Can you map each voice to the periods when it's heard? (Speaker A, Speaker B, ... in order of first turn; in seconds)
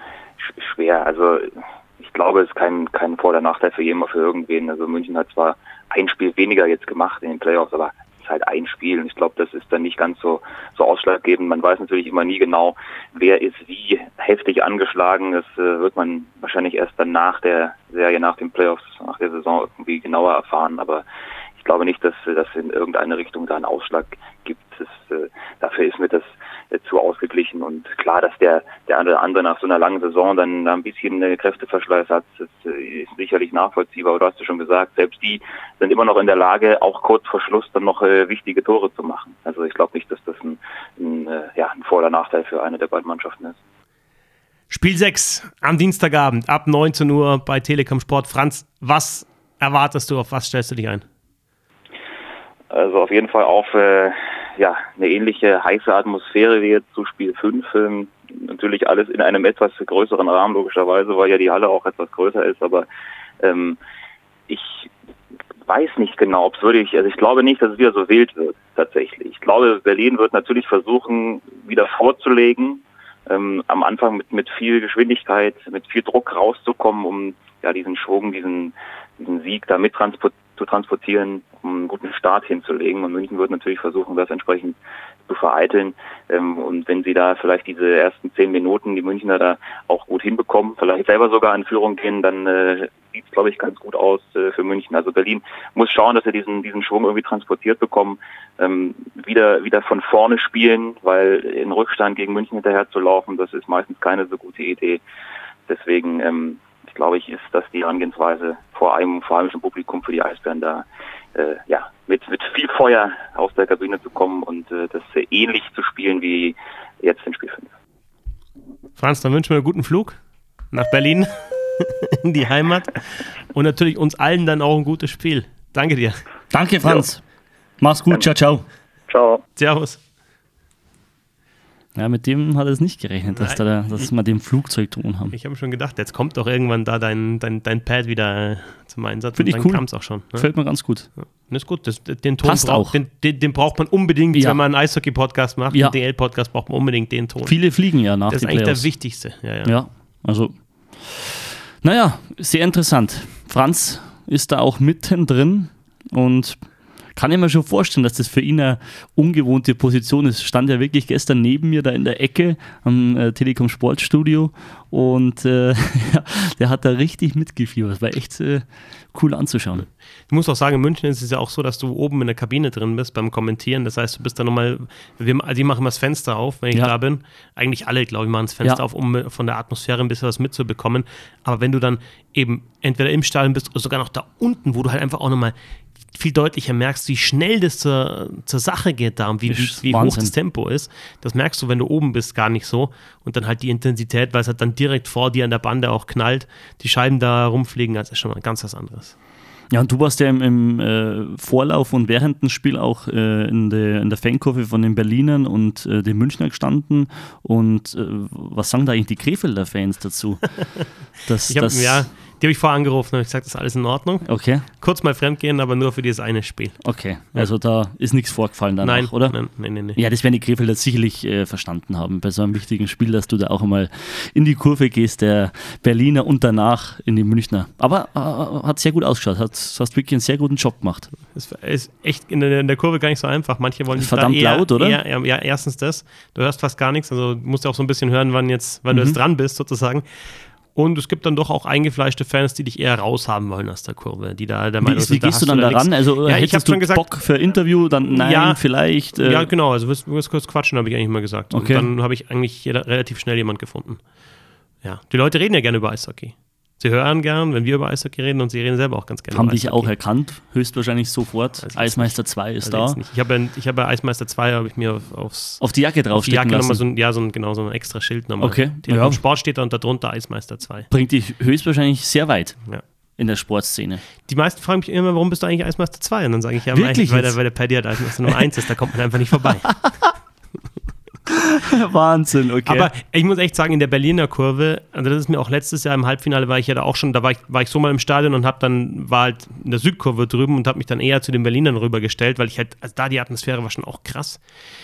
Speaker A: 0.4-21.1, 21.6-43.6, 52.7-62.9, 63.4-63.8, 64.5-64.9, 65.7-84.8, 85.3-105.0, 105.7-117.7, 129.1-129.4
Speaker B: 44.7-51.0, 119.0-120.2, 120.7-126.2, 129.6-130.0, 133.3-133.6, 135.3-140.5, 141.2-147.6, 148.3-149.7, 170.3-185.5, 186.1-199.2, 211.5-217.5, 218.8-220.0, 231.3-240.0, 240.7-247.1, 248.2-248.6, 249.1-254.1, 254.8-259.9, 261.6-270.9, 274.2-279.8, 282.7-294.4
Speaker C: 126.5-127.2, 127.8-128.7, 132.0-135.4, 139.4-141.1, 142.4-143.0, 144.3-144.6, 147.4-148.9, 149.7-156.6, 157.2-169.9, 189.5-190.3, 199.7-210.6, 211.2-212.1, 214.2-214.7, 216.8-231.1, 233.9-235.0, 238.9-239.2, 244.8-249.5, 251.5-251.9, 259.3-263.0, 265.6-266.8, 268.4-269.2, 270.9-272.6, 273.2-274.0, 276.7-277.4, 281.3-282.9